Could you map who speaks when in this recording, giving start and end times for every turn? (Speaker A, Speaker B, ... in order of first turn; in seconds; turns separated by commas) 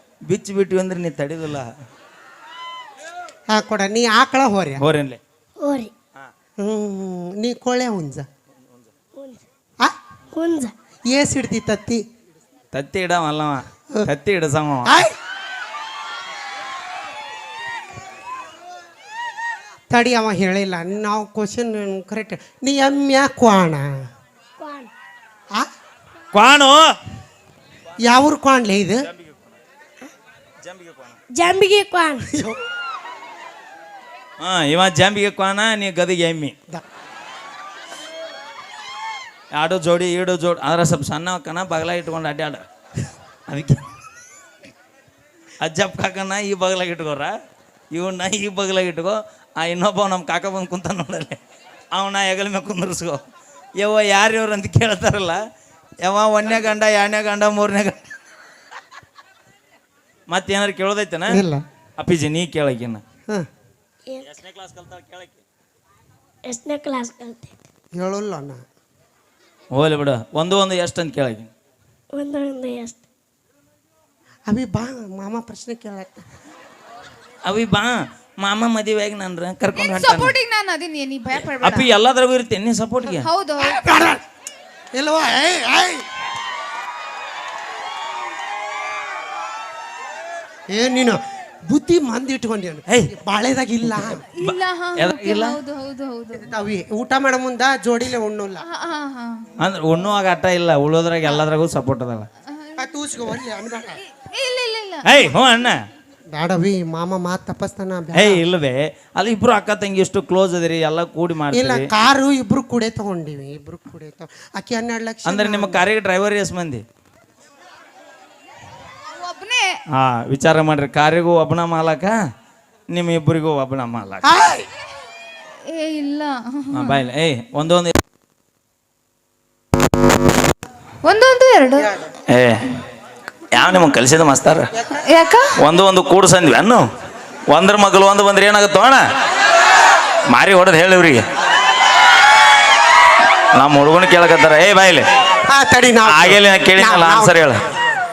Speaker A: 0.2-1.7, Speaker B: 3.5-4.8, Speaker A: 4.8-5.2, Speaker C: 5.6-5.9, Speaker B: 6.6-8.3, Speaker C: 9.2-9.4, Speaker C: 10.3-10.7, Speaker B: 11.1-12.0, Speaker A: 12.7-14.9, Speaker B: 14.9-15.1, Speaker B: 19.9-24.0, Speaker C: 24.6-24.9, Speaker A: 26.3-26.9, Speaker B: 28.0-29.1, Speaker A: 29.1-29.6, Speaker A: 30.6-31.2, Speaker C: 31.4-32.3, Speaker B: 32.3-32.6, Speaker A: 34.4-36.5, Speaker A: 39.5-42.6, Speaker A: 43.5-43.9, Speaker A: 45.6-47.3, Speaker A: 47.9-51.4, Speaker A: 51.9-53.2, Speaker A: 53.8-55.4, Speaker A: 56.0-58.0, Speaker A: 60.3-61.4, Speaker B: 61.3-61.6, Speaker A: 62.0-63.0, Speaker A: 64.2-65.4, Speaker C: 66.5-67.6, Speaker B: 68.0-68.6, Speaker A: 69.7-71.5, Speaker C: 72.1-73.0, Speaker B: 74.5-76.1, Speaker A: 77.4-80.3, Speaker D: 79.7-81.9, Speaker A: 81.6-83.3, Speaker D: 83.1-83.8, Speaker B: 83.6-84.2, Speaker B: 84.9-86.0, Speaker B: 90.7-94.2, Speaker A: 93.8-95.6, Speaker D: 94.4-96.5, Speaker B: 96.4-98.6, Speaker D: 98.7-99.5, Speaker A: 99.6-102.3, Speaker D: 102.5-102.8, Speaker B: 102.8-104.0, Speaker D: 104.3-105.3, Speaker A: 105.0-105.8, Speaker B: 106.3-108.4, Speaker A: 108.1-111.9, Speaker B: 111.5-115.8, Speaker A: 115.2-116.8, Speaker D: 119.1-119.8, Speaker A: 120.0-122.2, Speaker A: 122.9-124.2, Speaker B: 124.2-124.7, Speaker D: 125.6-127.0, Speaker A: 126.7-128.0, Speaker D: 131.1-131.9, Speaker A: 132.3-132.6, Speaker A: 133.5-134.7, Speaker D: 135.1-135.5, Speaker A: 135.6-136.9, Speaker A: 137.5-139.0, Speaker A: 140.3-141.2, Speaker A: 143.5-145.1, Speaker B: 145.5-147.4, Speaker A: 146.1-147.6